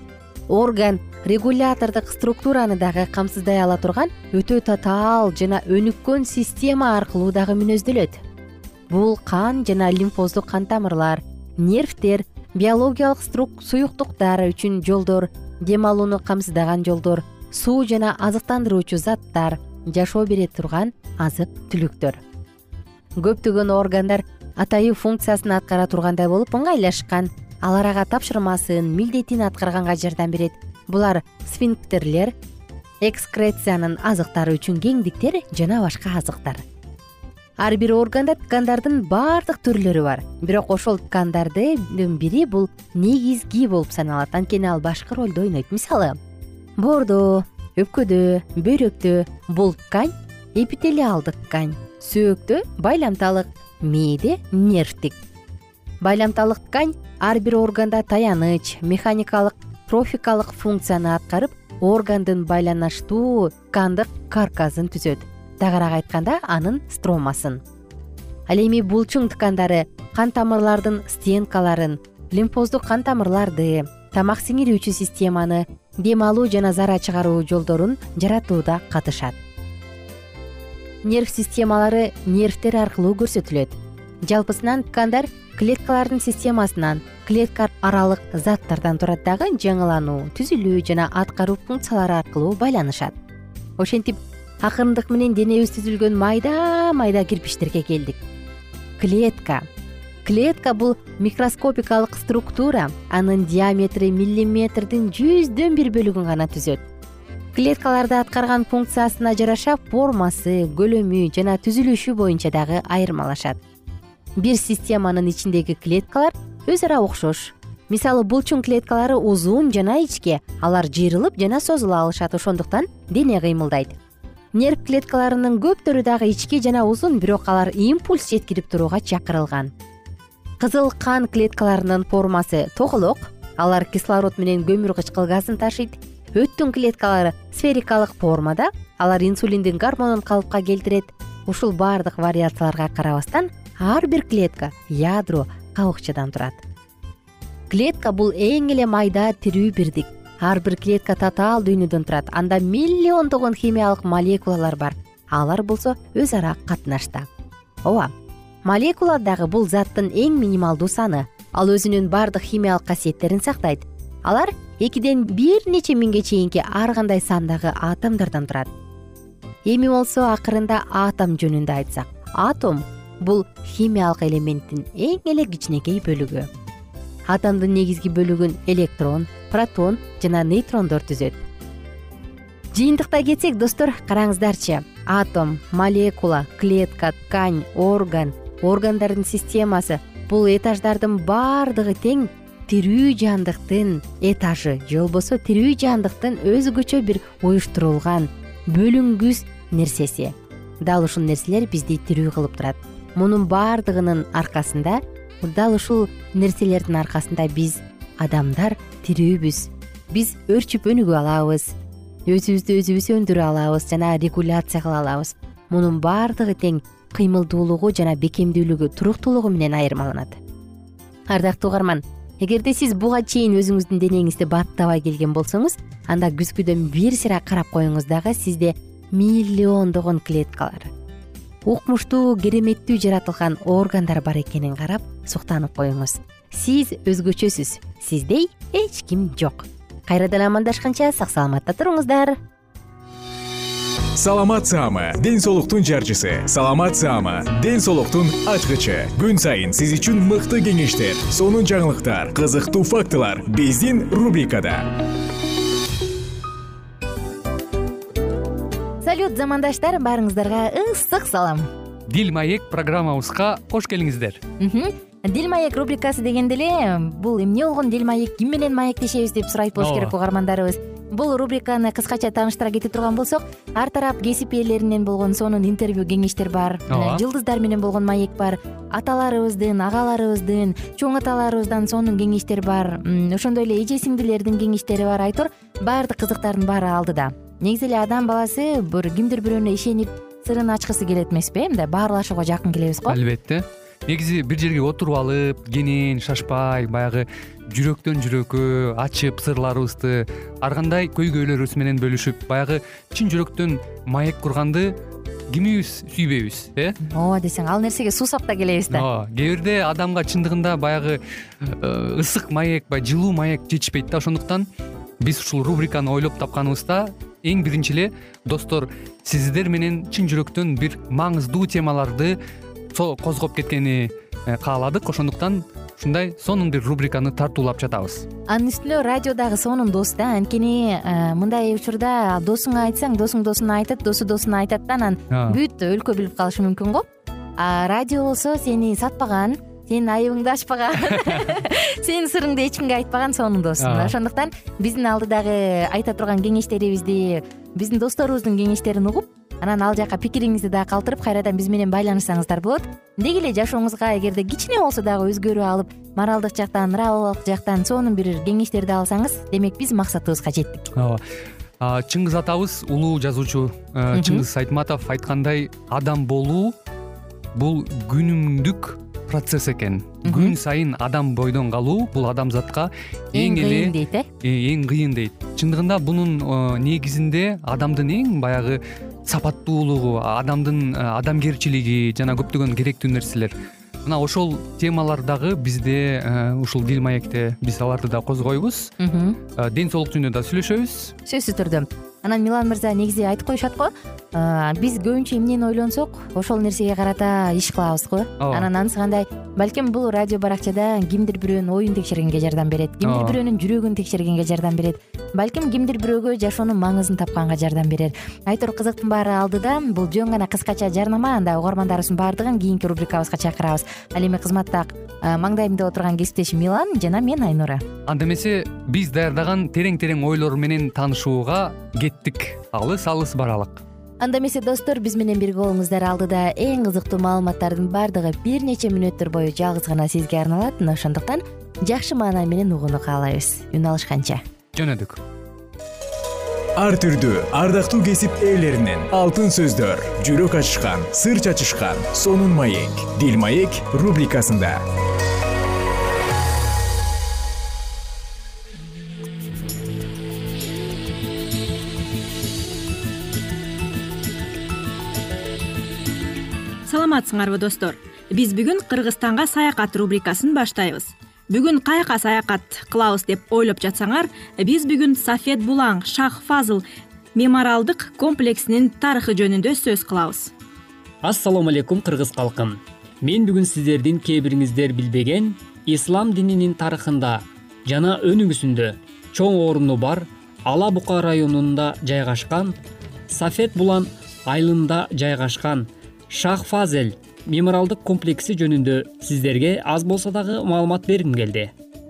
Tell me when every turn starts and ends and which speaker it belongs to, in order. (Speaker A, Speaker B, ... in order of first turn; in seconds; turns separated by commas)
Speaker A: 0.5-8.2, Speaker A: 8.9-22.2, Speaker A: 23.2-32.4, Speaker A: 33.0-36.6, Speaker A: 37.6-46.2, Speaker A: 46.8-55.2, Speaker A: 56.0-67.6, Speaker A: 68.5-79.4, Speaker A: 81.0-93.2, Speaker A: 93.8-98.2, Speaker A: 99.0-99.7, Speaker A: 100.2-106.8, Speaker A: 107.5-113.6, Speaker A: 114.4-124.0, Speaker A: 124.5-129.7, Speaker A: 130.6-146.6, Speaker A: 147.7-157.3, Speaker A: 157.8-158.1, Speaker A: 158.6-168.7, Speaker A: 169.7-176.5, Speaker A: 177.3-181.4, Speaker A: 182.7-211.7, Speaker A: 212.2-220.4, Speaker A: 221.3-230.9, Speaker A: 231.7-242.4, Speaker B: 244.2-254.9, Speaker A: 259.0-261.6, Speaker C: 262.1-264.4, Speaker A: 264.6-293.1, Speaker C: 269.8-270.1, Speaker C: 276.9-277.2, Speaker C: 293.1-304.9, Speaker C: 305.5-307.0, Speaker A: 307.1-309.0, Speaker C: 308.9-314.7, Speaker C: 315.2-322.4, Speaker C: 322.9-328.3, Speaker A: 328.5-337.0, Speaker C: 335.3-335.6, Speaker A: 337.6-360.9, Speaker C: 343.8-344.1, Speaker C: 360.9-361.2, Speaker C: 361.8-366.8, Speaker A: 364.1-364.4, Speaker C: 367.5-388.9, Speaker A: 370.2-370.5, Speaker A: 373.4-374.2, Speaker A: 389.0-389.4, Speaker C: 389.5-391.1, Speaker A: 391.3-417.8, Speaker C: 398.4-398.7, Speaker C: 403.0-403.4, Speaker C: 418.1-423.8, Speaker A: 424.2-434.4, Speaker C: 434.8-435.2, Speaker B: 436.8-444.8, Speaker D: 456.9-466.8, Speaker D: 467.4-470.5, Speaker E: 471.2-482.8, Speaker E: 483.3-491.7